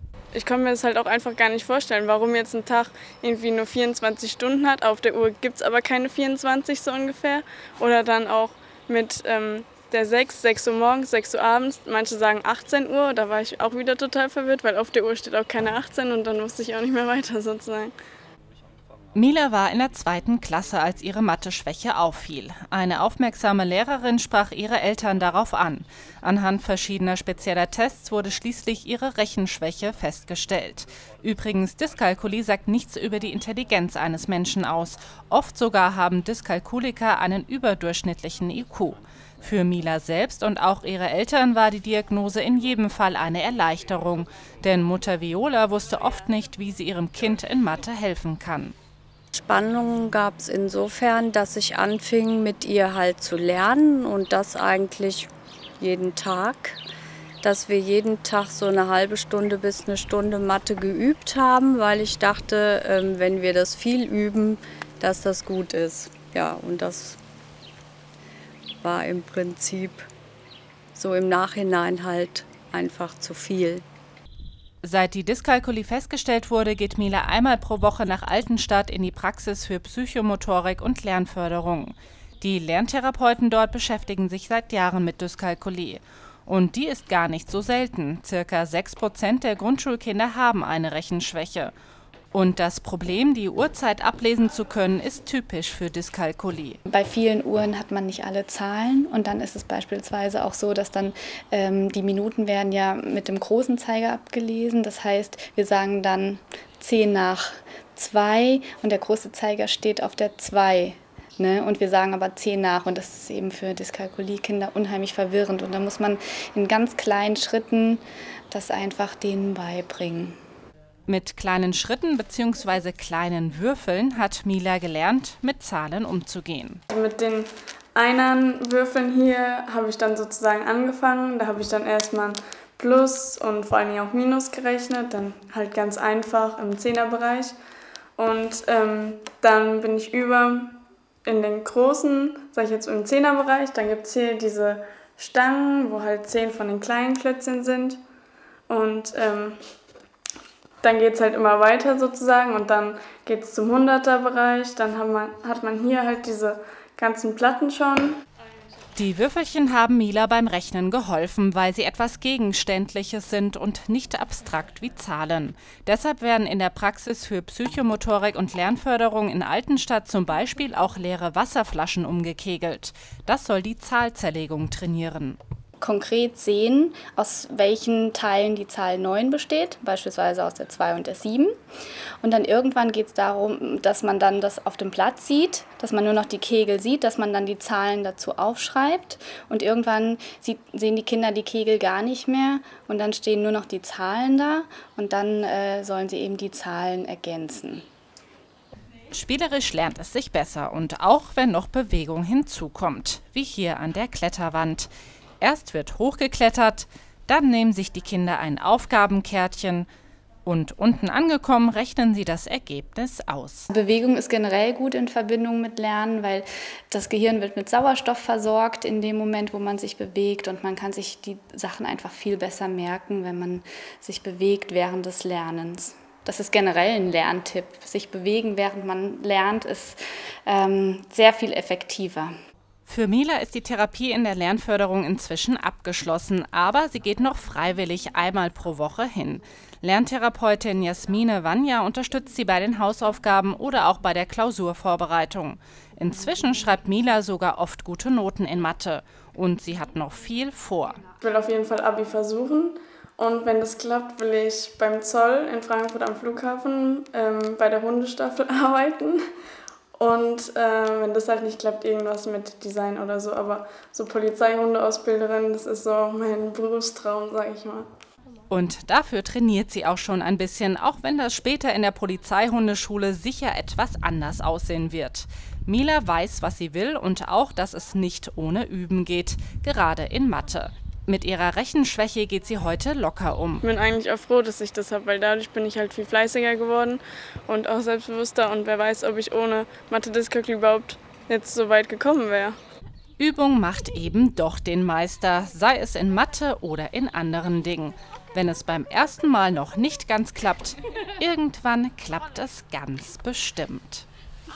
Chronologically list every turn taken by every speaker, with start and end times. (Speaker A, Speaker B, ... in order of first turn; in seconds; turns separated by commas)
Speaker A: 0.3-17.9, Speaker B: 19.1-48.7, Speaker C: 49.3-56.8, Speaker C: 57.4-67.2, Speaker C: 68.8-70.1, Speaker C: 70.9-73.8, Speaker B: 74.8-91.7, Speaker B: 92.3-96.8, Speaker D: 96.9-120.4, Speaker B: 121.1-126.8, Speaker A: 126.9-137.6, Speaker A: 138.2-148.0, Speaker A: 148.7-149.6, Speaker A: 150.8-158.2, Speaker B: 158.9-175.4, Speaker D: 175.8-181.5, Speaker D: 182.2-197.8, Speaker B: 199.1-204.9, Speaker B: 205.4-209.9, Speaker B: 210.4-213.7, Speaker D: 213.7-232.3, Speaker B: 232.8-251.0, Speaker A: 251.2-259.2, Speaker A: 259.9-267.9, Speaker B: 268.5-283.6, Speaker A: 283.6-292.6, Speaker B: 293.2-304.1